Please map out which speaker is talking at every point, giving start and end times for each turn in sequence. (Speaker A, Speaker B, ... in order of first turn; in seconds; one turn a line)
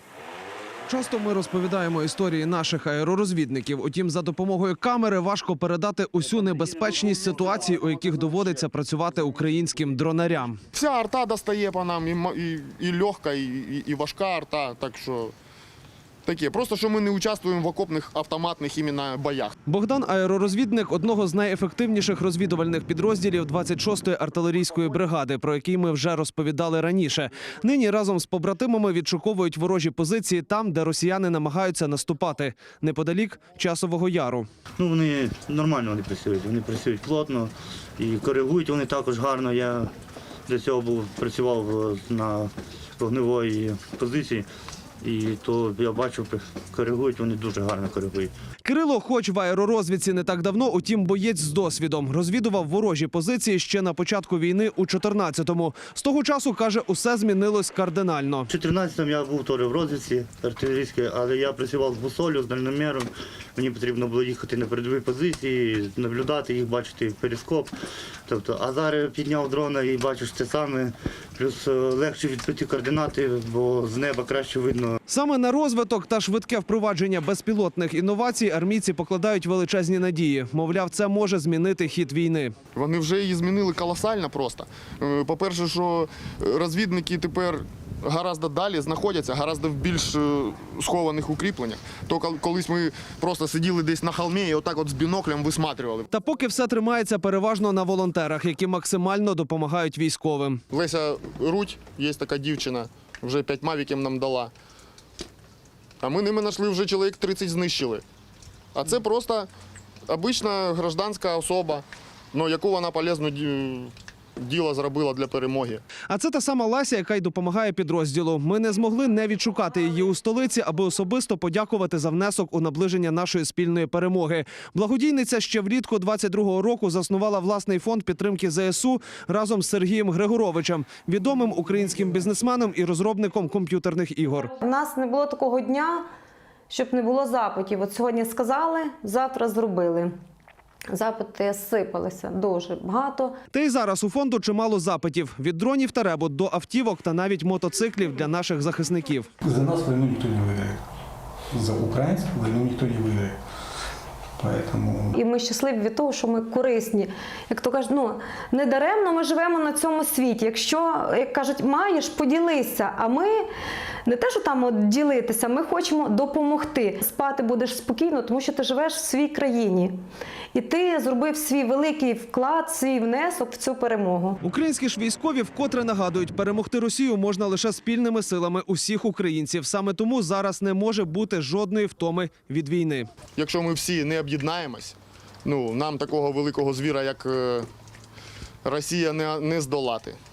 Speaker A: 0.9-10.6
Speaker B: 10.7-15.3
Speaker B: 16.2-19.6
Speaker A: 19.7-34.5
Speaker C: 34.8-39.9
Speaker C: 40.5-44.5
Speaker C: 45.0-48.3
Speaker A: 48.6-58.5
Speaker C: 58.5-67.7
Speaker C: 68.3-75.0
Speaker A: 75.1-82.5
Speaker B: 82.8-96.1
Speaker A: 96.1-100.6
Speaker B: 100.7-104.5
Speaker B: 106.0-108.0
Speaker B: 108.7-109.5
Speaker B: 110.1-115.8
Speaker A: 116.1-134.5
Speaker D: 134.5-136.0
Speaker D: 136.7-140.1
Speaker D: 140.9-143.4
Speaker A: 143.5-149.3
Speaker E: 149.4-150.8
Speaker E: 151.5-153.4
Speaker E: 154.4-155.2
Speaker D: 155.2-163.4
Speaker D: 164.1-169.9
Speaker D: 170.5-174.4
Speaker A: 174.4-183.1
Speaker B: 183.4-187.7
Speaker B: 188.6-190.2